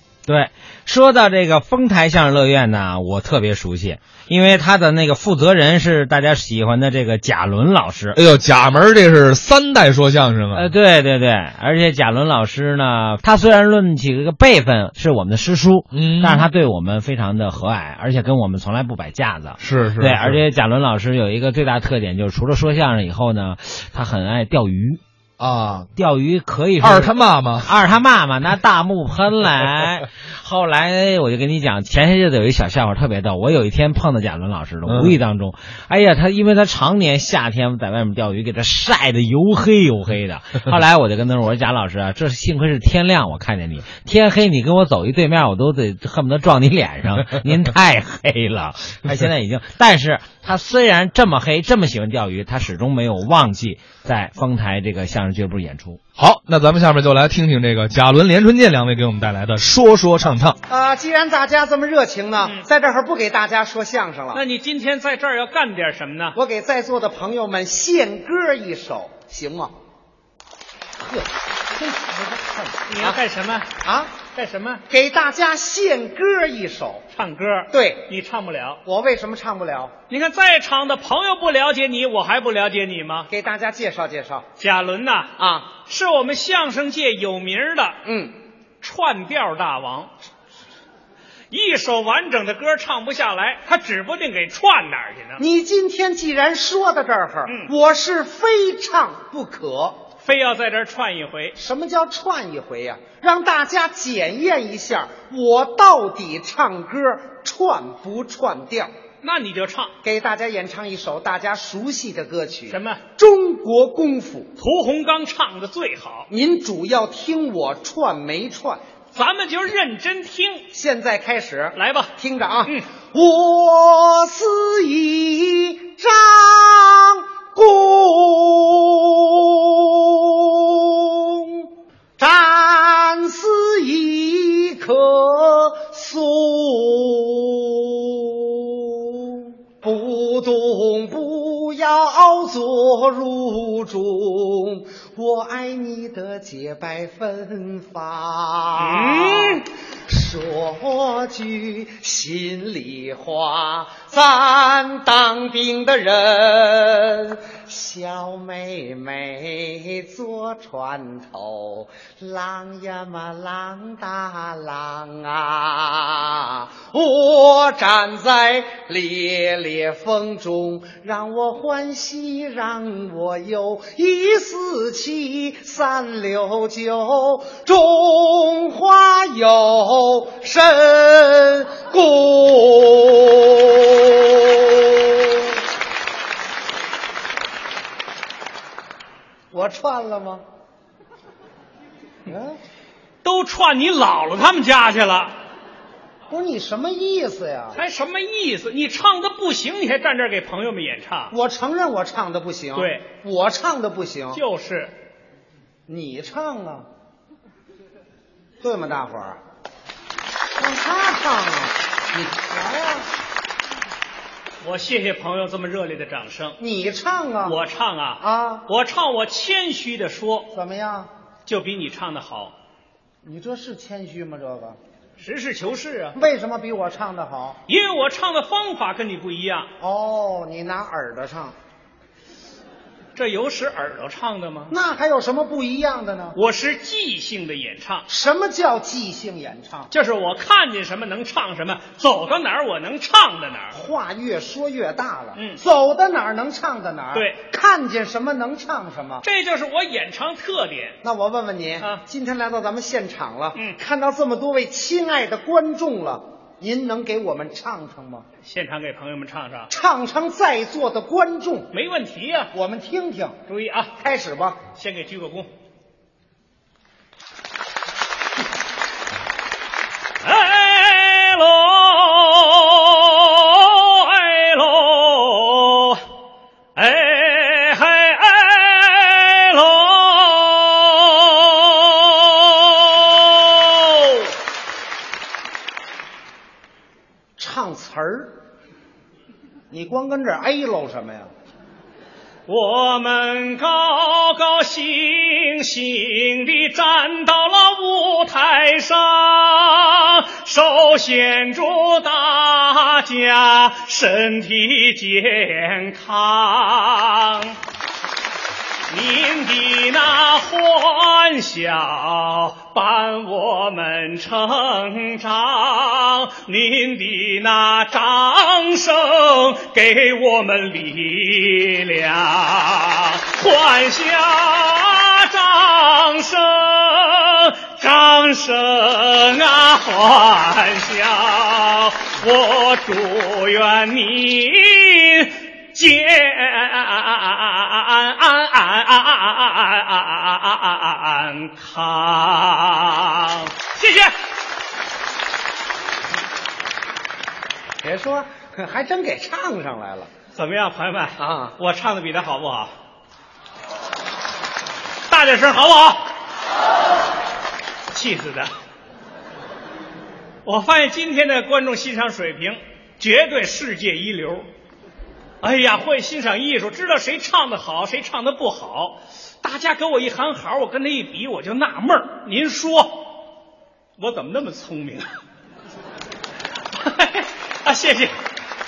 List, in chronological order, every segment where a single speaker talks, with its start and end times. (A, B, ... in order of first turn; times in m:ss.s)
0:00.3-0:08.2 A
0:08.1-0:10.7 B
0:10.5-0:25.0 A
0:15.9-0:16.4 B
0:19.6-0:20.4 B
0:25.4-0:25.9 B
0:26.0-0:56.0 A
0:26.8-0:27.7 B
0:34.8-0:35.1 B
0:56.2-1:00.6 B
1:00.7-1:04.4 C
1:04.3-1:06.4 D
1:06.3-1:09.7 C
1:11.0-1:13.2 C
1:12.9-1:13.7 D
1:13.8-1:14.1 C
1:14.3-1:14.8 D
1:14.9-1:17.0 C
1:17.1-1:18.8 D
1:17.7-1:18.1 C
1:18.8-1:19.9 C
1:20.1-1:23.3 D
1:23.3-1:24.4 C
1:24.6-1:28.0 D
1:25.4-1:25.7 C
1:28.0-1:28.3 C
1:28.8-1:30.1 D
1:31.5-1:35.4 D
1:35.4-1:40.0 C
1:40.2-1:41.6 D
1:41.6-1:48.9 C
1:49.2-1:49.9 D
1:50.0-1:54.5 C
1:52.7-1:53.0 D
1:54.6-1:56.3 D
1:56.3-1:58.8 C
1:59.1-2:00.7 D
2:00.7-3:05.3 C
2:01.7-2:02.1 D
2:28.8-2:29.6 D
3:09.5-3:10.4 C
3:12.3-3:12.6 C
3:13.2-3:15.3 D
3:16.3-3:17.8 C
3:17.7-3:21.3 D
3:21.3-3:24.4 C
3:22.7-3:23.0 D
3:24.3-3:24.9 D
3:25.9-3:26.9 C
3:28.6-3:29.4 C
3:30.6-3:33.1 C
3:34.6-3:36.6 D
3:36.6-3:37.6 C
3:37.4-3:40.5 D
3:38.2-3:38.7 C
3:40.5-3:41.1 C
3:41.4-3:42.5 D
3:43.2-3:44.8 C
3:45.2-3:46.2 D
3:46.1-3:47.6 C
3:47.6-3:49.7 D
3:49.8-3:51.5 C
3:53.2-3:54.7 D
3:54.7-3:56.4 C
3:56.3-3:58.0 D
3:58.1-3:59.9 C
3:59.9-4:03.8 D
4:03.7-4:09.2 C
4:05.3-4:05.6 D
4:09.2-4:11.0 D
4:11.0-4:18.2 C
4:18.4-4:19.7 D
4:19.7-4:21.7 C
4:21.7-4:22.5 D
4:22.5-4:23.4 C
4:23.5-4:23.9 D
4:24.0-4:24.6 C
4:24.7-4:25.5 D
4:30.2-4:36.0 D
4:36.8-4:44.3 D
4:47.4-4:48.3 C
4:49.7-4:51.3 C
4:52.5-5:07.6 D
5:08.9-5:44.1 D
5:47.8-5:50.1 C
5:50.3-5:52.7 D
5:51.2-5:51.5 C
5:55.1-5:56.1 D
5:57.9-5:58.5 D
6:00.4-6:04.5 D
6:05.4-6:13.2 D
6:14.0-6:15.0 D
6:16.7-6:18.1 D